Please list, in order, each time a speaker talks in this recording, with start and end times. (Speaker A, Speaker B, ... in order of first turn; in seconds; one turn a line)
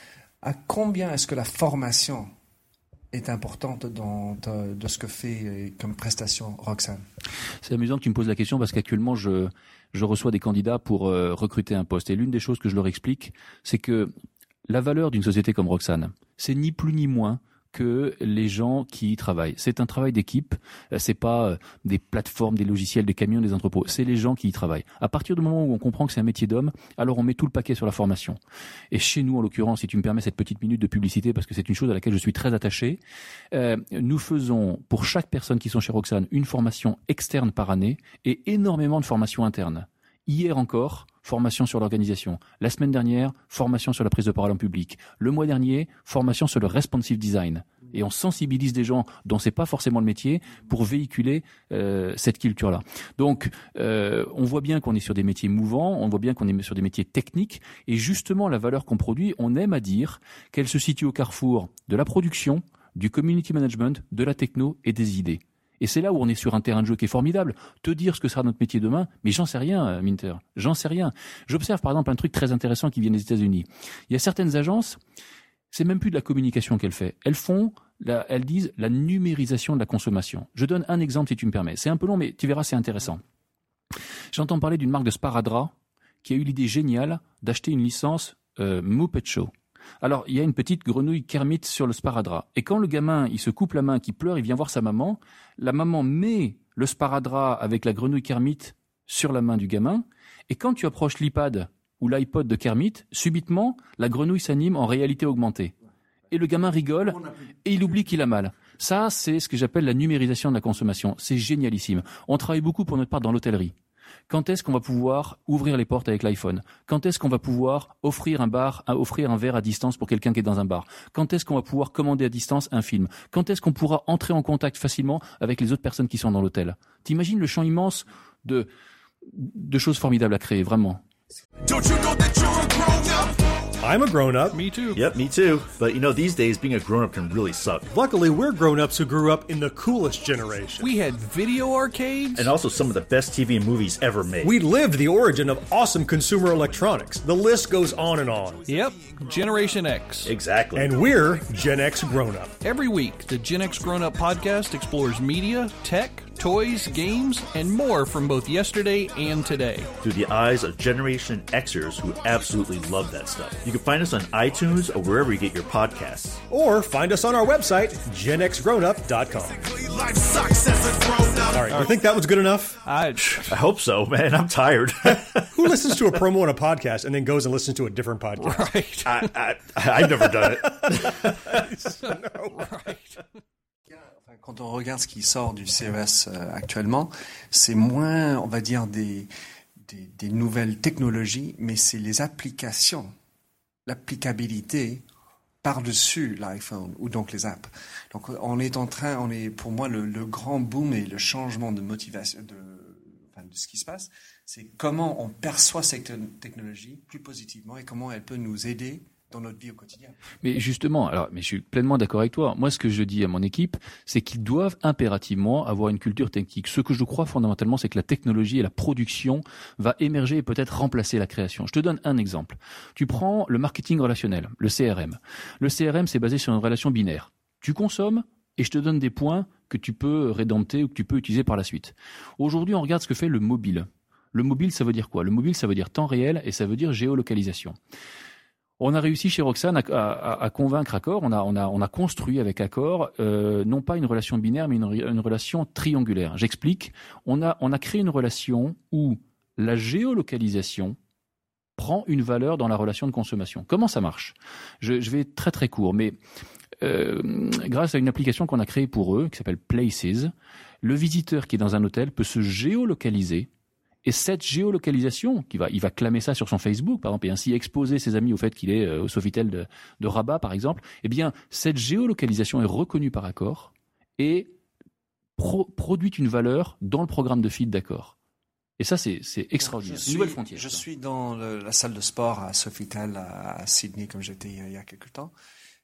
Speaker A: 0.4-2.3
Speaker A: 3.1-7.0
Speaker B: 7.6-14.1
Speaker B: 14.7-28.4
Speaker B: 28.9-33.0
Speaker B: 33.5-75.0
Speaker B: 75.7-83.2
Speaker B: 84.3-89.5
Speaker B: 90.0-105.7
Speaker B: 106.3-113.7
Speaker B: 114.3-128.7
Speaker B: 129.3-131.0
Speaker C: 133.8-134.6
Speaker D: 134.5-135.0
Speaker E: 134.9-137.9
Speaker C: 137.9-140.9
Speaker D: 140.8-142.5
Speaker E: 142.3-144.6
Speaker C: 144.4-148.7
Speaker D: 148.7-150.3
Speaker E: 150.2-150.9
Speaker C: 150.7-152.5
Speaker D: 152.6-159.9
Speaker E: 160.0-166.4
Speaker C: 166.5-170.2
Speaker C: 170.8-172.8
Speaker D: 171.7-171.9
Speaker D: 172.8-173.6
Speaker E: 173.2-175.5
Speaker C: 175.5-178.8
Speaker D: 178.4-179.1
Speaker E: 179.1-181.4
Speaker C: 181.9-182.7
Speaker D: 182.6-183.2
Speaker A: 183.9-189.3
Speaker A: 189.8-193.1
Speaker A: 193.8-195.0
Speaker A: 195.6-210.1
Speaker B: 210.4-237.8
Speaker B: 238.8-251.0
Speaker B: 251.8-256.1
Speaker B: 256.8-260.3
Speaker B: 260.8-263.5
Speaker B: 264.0-274.5
Speaker B: 275.4-278.1
Speaker B: 278.8-280.8
Speaker A: 279.6-285.3